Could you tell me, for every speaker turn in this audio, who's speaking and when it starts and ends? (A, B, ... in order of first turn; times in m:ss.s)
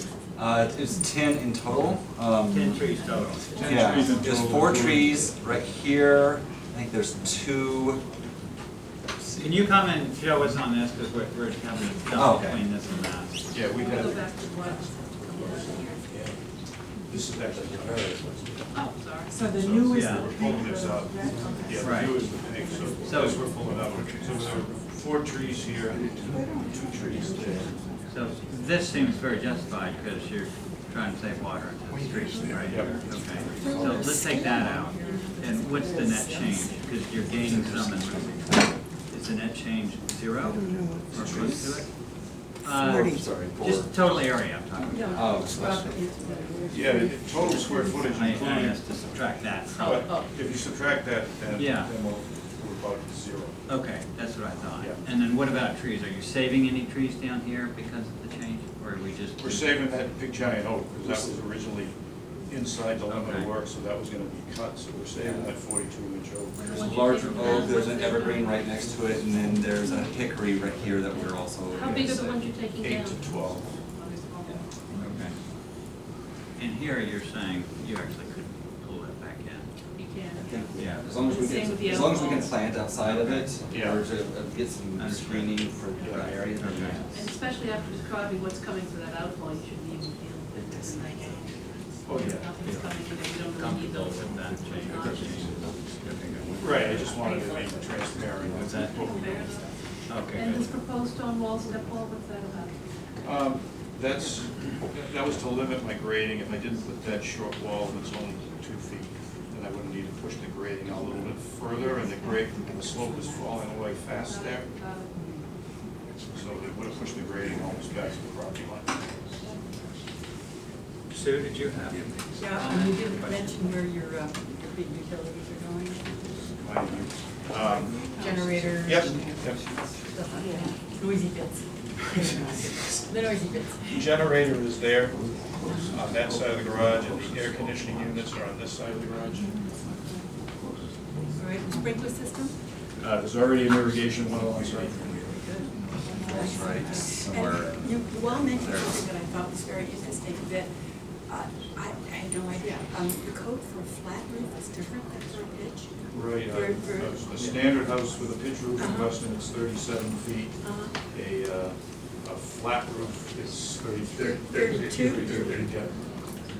0:00.4-0:02.8 A
0:02.5-0:04.4 B
0:03.4-0:04.1 C
0:03.6-0:05.2 D
0:03.6-0:08.0 A
0:09.3-0:13.3 B
0:12.1-0:12.6 A
0:13.5-0:16.4 D
0:13.8-0:16.0 C
0:17.0-0:18.8 D
0:18.7-0:19.4 C
0:19.6-0:27.8 D
0:19.9-0:20.3 B
0:21.8-0:22.2 B
0:23.0-0:23.5 B
0:28.1-0:41.9 B
0:32.7-0:33.0 D
0:41.2-0:41.5 D
0:42.6-0:45.8 B
0:43.0-0:43.9 A
0:44.9-0:48.2 E
0:45.0-0:46.0 A
0:46.7-0:48.8 D
0:48.1-0:50.2 B
0:49.8-0:53.6 D
0:49.9-0:50.3 E
0:51.5-0:51.9 B
0:53.7-0:59.9 B
0:59.4-1:01.9 D
1:02.5-1:06.9 D
1:03.1-1:03.5 B
1:05.2-1:05.5 A
1:06.6-1:08.8 C
1:06.7-1:12.2 A
1:11.7-1:14.6 C
1:11.9-1:13.8 D
1:14.9-1:15.4 B
1:16.6-1:19.7 B
1:19.9-1:22.6 C
1:20.4-1:27.3 A
1:20.8-1:21.1 B
1:23.0-1:23.6 B
1:23.7-1:24.0 D
1:25.0-1:27.0 B
1:27.1-1:35.7 C
1:32.0-1:32.5 D
1:32.5-1:33.0 B
1:33.5-1:37.1 B
1:36.6-1:39.4 D
1:38.5-1:39.0 B
1:39.0-1:42.8 C
1:40.1-1:40.7 B
1:43.2-1:54.7 D
1:54.3-1:55.2 C
1:55.2-1:55.4 E
1:56.3-1:58.9 D
2:01.1-2:03.6 B
2:02.4-2:06.6 E
2:06.6-2:08.0 D
2:07.7-2:13.9 E
2:08.8-2:09.7 D
2:13.9-2:15.2 D
2:15.8-2:19.5 D
2:21.4-2:22.6 E
2:23.0-2:25.2 D
2:26.2-2:30.7 E
2:26.3-2:29.1 A
2:31.3-2:37.4 E
2:36.1-2:46.0 D
2:38.8-2:39.2 E
2:40.6-2:41.0 E
2:44.2-2:45.6 E